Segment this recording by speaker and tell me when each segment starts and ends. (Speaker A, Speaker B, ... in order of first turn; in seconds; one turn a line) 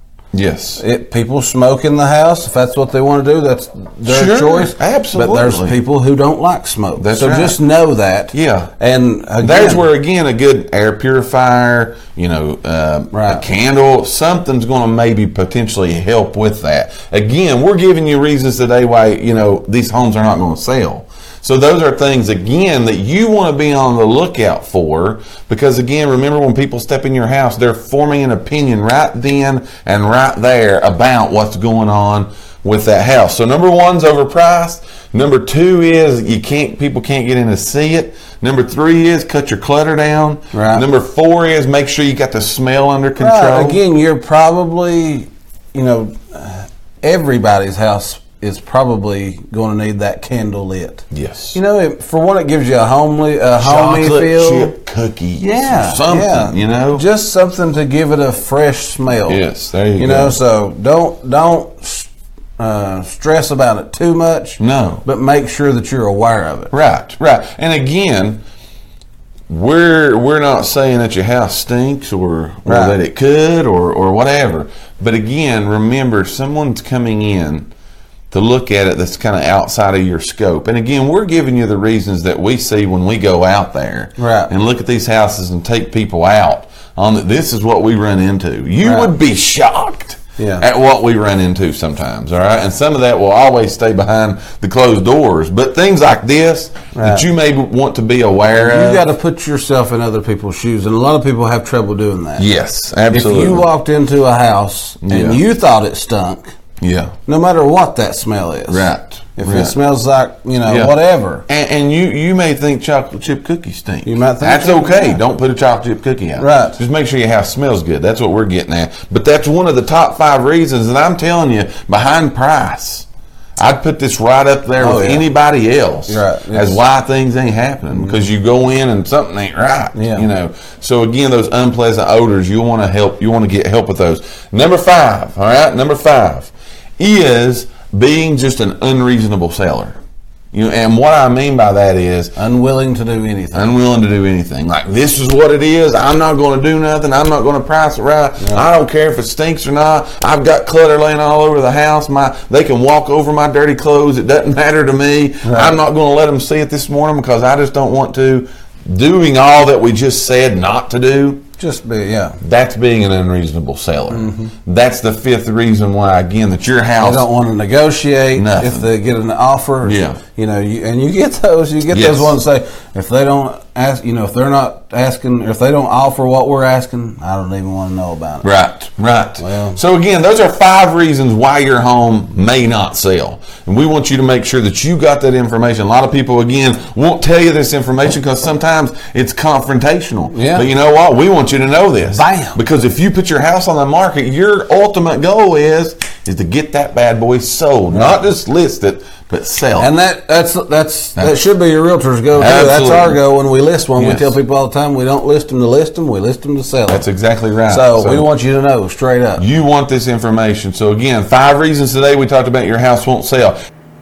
Speaker A: 0.3-0.8
Speaker B: 0.8-9.8
Speaker A: 4.1-5.8
Speaker A: 7.0-7.6
Speaker A: 8.3-8.7
Speaker A: 9.4-43.8
Speaker B: 13.1-13.4
Speaker B: 40.5-40.9
Speaker B: 43.2-54.8
Speaker A: 51.1-51.6
Speaker A: 53.6-57.0
Speaker B: 55.4-59.4
Speaker A: 59.3-60.4
Speaker B: 60.0-66.7
Speaker A: 64.6-65.0
Speaker A: 66.7-68.4
Speaker A: 69.5-77.7
Speaker B: 72.7-73.0
Speaker A: 78.3-99.0
Speaker B: 84.2-84.5
Speaker B: 88.8-89.1
Speaker B: 90.4-90.7
Speaker B: 97.0-97.2
Speaker B: 98.5-102.5
Speaker A: 102.4-103.7
Speaker B: 103.1-106.5
Speaker A: 105.0-105.4
Speaker A: 106.8-107.1
Speaker B: 107.3-111.4
Speaker A: 108.7-109.8
Speaker A: 110.7-111.0
Speaker A: 111.5-123.1
Speaker B: 114.0-115.2
Speaker B: 116.4-116.8
Speaker A: 123.6-140.0
Speaker B: 124.8-125.3
Speaker B: 126.1-126.8
Speaker B: 129.9-130.2
Speaker A: 140.5-142.3
Speaker B: 142.4-143.7
Speaker A: 143.5-161.4
Speaker B: 155.4-155.8
Speaker B: 161.6-162.4
Speaker A: 162.4-167.3
Speaker B: 164.1-164.5
Speaker B: 167.0-178.5
Speaker A: 168.3-168.9
Speaker A: 169.8-170.2
Speaker A: 171.9-172.4
Speaker A: 178.4-199.9
Speaker B: 179.4-179.8
Speaker B: 190.3-190.7
Speaker B: 192.1-192.6
Speaker B: 199.8-207.1
Speaker A: 202.3-203.2
Speaker A: 203.9-204.4
Speaker A: 206.9-208.3
Speaker B: 207.7-209.4
Speaker A: 209.4-213.6